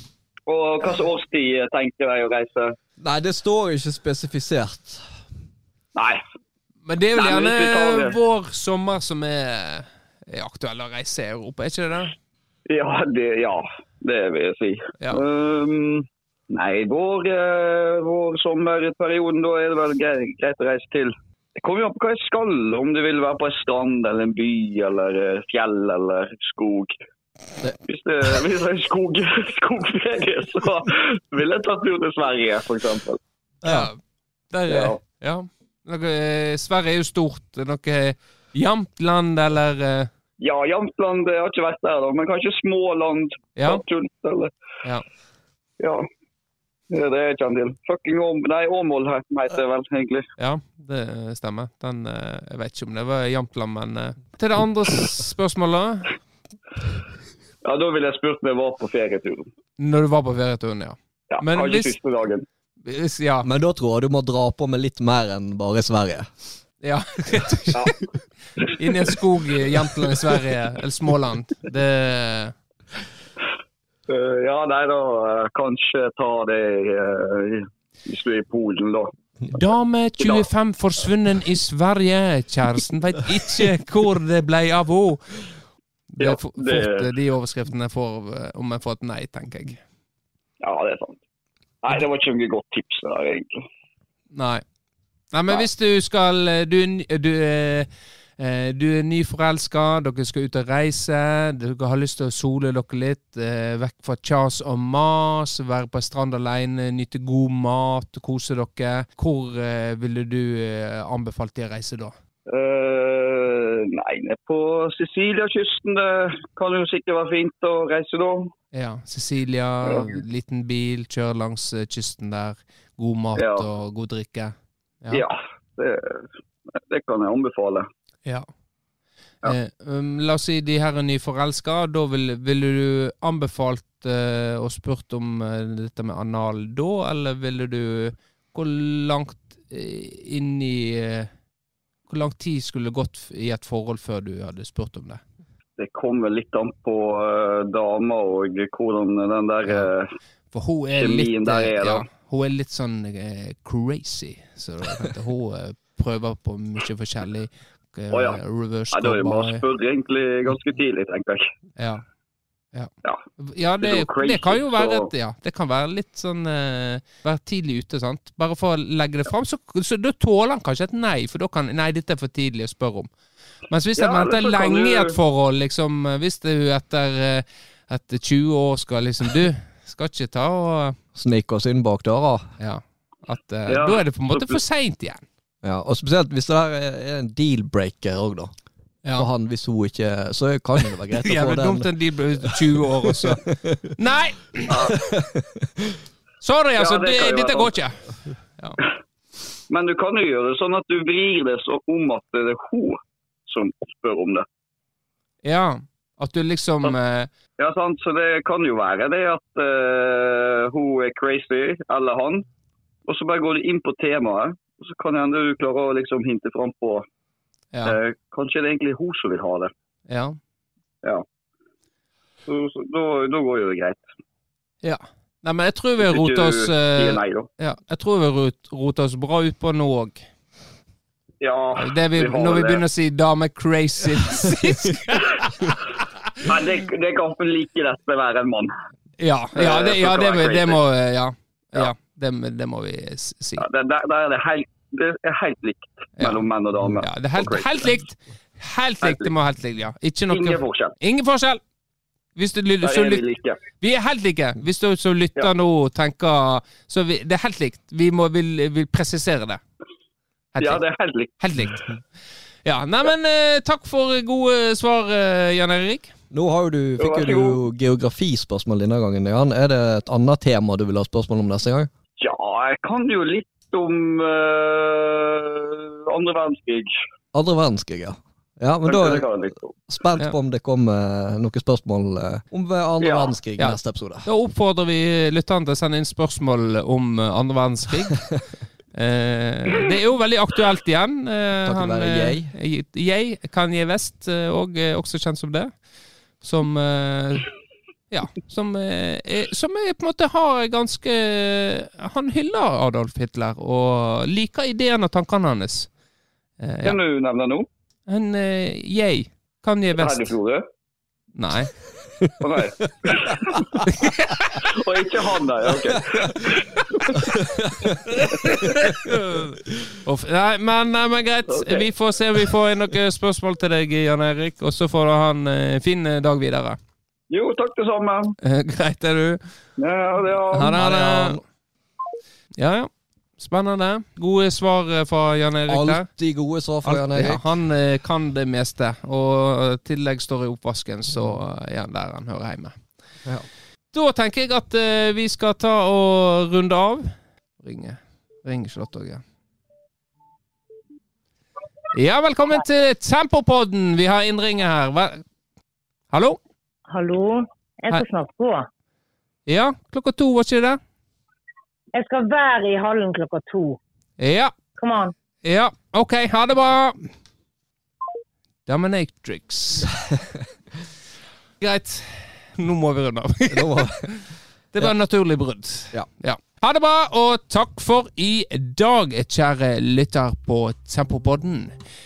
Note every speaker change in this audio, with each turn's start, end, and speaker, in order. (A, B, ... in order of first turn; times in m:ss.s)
0:00.5-0:02.8 A
0:03.0-0:05.1 B
0:06.0-0:06.2 A
0:06.9-0:12.1 C
0:07.2-0:08.2 A
0:12.7-0:26.9 A
0:27.9-0:33.2 A
0:33.6-0:34.0 C
0:33.6-0:33.9 B
0:34.5-0:40.1 C
0:34.7-0:35.0 A
0:40.4-0:44.5 A
0:43.6-0:43.8 C
0:45.8-0:46.1 A
0:46.9-0:50.3 A
0:50.4-0:56.1 C
0:57.6-0:59.5 A
0:59.8-1:01.9 C
1:01.3-1:02.5 A
1:02.8-1:03.5 C
1:03.4-1:06.3 B
1:06.8-1:07.9 C
1:08.8-1:12.5 C
1:14.1-1:19.2 A
1:19.5-1:25.5 C
1:20.2-1:20.5 A
1:26.1-1:29.8 C
1:26.2-1:27.1 A
1:30.6-1:31.2 A
1:31.8-1:33.6 A
1:34.3-1:34.6 C
1:35.3-1:52.2 C
1:52.5-1:58.5 A
1:58.7-2:05.2 C
1:59.8-2:00.1 A
2:03.4-2:03.7 A
2:05.1-2:06.2 A
2:06.8-2:07.9 A
2:09.4-2:21.3 C
2:22.1-2:25.2 C
2:25.8-2:30.1 A
2:30.5-2:39.6 C
2:30.9-2:32.1 A
2:38.1-2:38.4 A
2:38.9-2:41.4 A
2:41.8-2:42.0 C
2:42.7-2:53.1 C
2:43.8-2:45.1 A
2:53.7-3:01.0 C
2:54.0-2:55.2 A
3:01.2-3:02.4 B
3:02.6-3:05.2 C
3:03.7-3:04.6 A
3:05.6-3:08.5 B
3:09.2-3:13.9 B
3:11.2-3:14.9 C
3:14.7-3:14.9 A
3:15.0-3:16.0 B
3:16.4-3:18.8 C
3:16.8-3:17.7 A
3:19.7-3:24.5 A
3:25.4-3:27.3 C
3:27.6-3:32.5 A
3:33.1-3:37.1 A
3:37.8-3:39.7 A
3:40.1-3:40.4 C
3:42.5-3:44.0 A
3:44.8-3:50.2 C
3:46.0-3:47.5 A
3:51.4-3:52.8 A
3:51.8-3:55.8 C
3:56.5-3:58.7 A
3:59.2-4:03.6 C
3:59.6-4:00.8 A
4:03.6-4:08.0 A
4:06.2-4:06.4 C
4:07.0-4:11.6 C
4:09.0-4:09.3 A
4:10.3-4:10.9 A
4:12.4-4:13.2 C
4:12.8-4:13.6 A
4:13.8-4:19.6 C
4:20.5-4:20.8 C
4:20.6-4:21.3 A
4:21.4-4:21.9 C
4:22.6-4:26.1 C
4:26.3-4:31.9 B
4:27.0-4:27.6 A
4:32.2-4:36.9 A
4:37.3-4:39.3 B
4:38.9-4:39.8 A
4:39.9-4:44.3 B
4:43.0-4:43.3 A
4:43.6-4:48.3 C
4:48.9-4:55.9 C
4:51.6-4:52.5 B
4:56.4-4:57.5 C
4:58.1-5:05.9 C
5:06.6-5:07.0 C
5:06.8-5:07.7 A
5:08.1-5:10.3 C
5:10.0-5:10.7 A
5:11.4-5:11.7 C
5:12.4-5:13.6 A
5:13.9-5:14.6 C
5:14.6-5:17.2 A
5:17.4-5:18.0 B
5:18.1-5:19.5 C
5:20.0-5:26.8 C
5:21.5-5:21.9 A
5:27.3-5:28.3 A
5:28.4-5:29.4 C
5:29.8-5:30.8 A
5:30.5-5:31.4 C
5:30.8-5:31.4 B
5:32.6-5:36.1 C
5:35.7-5:37.5 B
5:36.8-5:42.8 C
5:43.9-5:49.2 C
5:51.9-5:55.2 C
5:56.1-5:56.4 C
5:56.9-5:58.7 D
5:59.5-6:00.8 C
6:01.9-6:03.8 D
6:04.2-6:04.5 C
6:04.8-6:05.1 D
6:05.4-6:07.1 C
6:08.7-6:10.0 C
6:11.6-6:21.7 C
6:13.5-6:14.1 B